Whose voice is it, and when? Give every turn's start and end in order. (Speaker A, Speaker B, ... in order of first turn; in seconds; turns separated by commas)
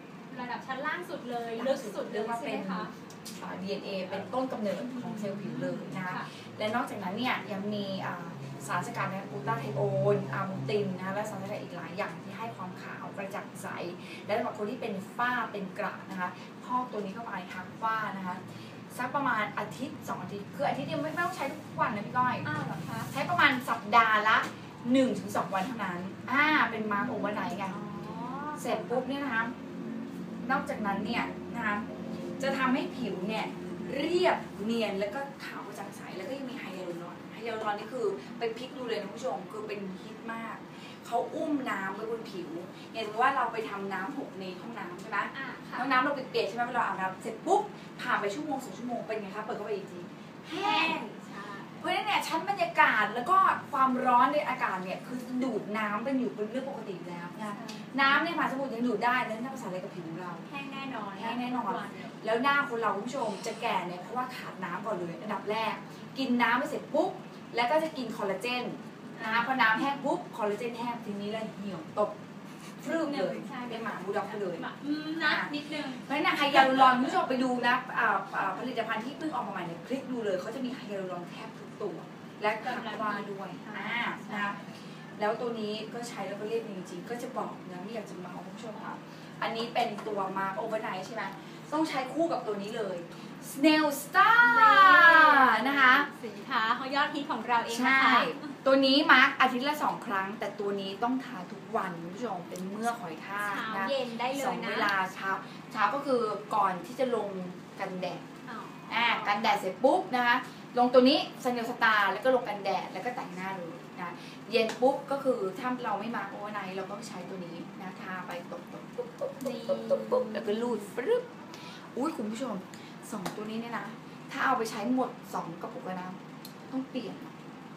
Speaker A: 0.3-2.9, Speaker B: 1.6-22.5, Speaker A: 4.9-6.3, Speaker A: 22.4-23.1, Speaker B: 23.1-27.8, Speaker A: 27.1-29.0, Speaker B: 28.6-29.6, Speaker B: 30.4-31.9, Speaker B: 32.4-51.0, Speaker A: 45.3-45.9, Speaker A: 50.5-51.9, Speaker B: 51.8-60.5, Speaker A: 57.5-58.1, Speaker A: 60.5-62.1, Speaker B: 61.1-72.2, Speaker A: 69.1-69.6, Speaker B: 72.8-74.7, Speaker A: 72.8-77.2, Speaker B: 75.2-84.6, Speaker A: 82.6-84.7, Speaker B: 85.2-96.1, Speaker A: 94.4-98.5, Speaker B: 97.7-108.2, Speaker A: 103.4-104.9, Speaker A: 108.5-109.6, Speaker B: 108.9-127.3, Speaker A: 119.4-120.9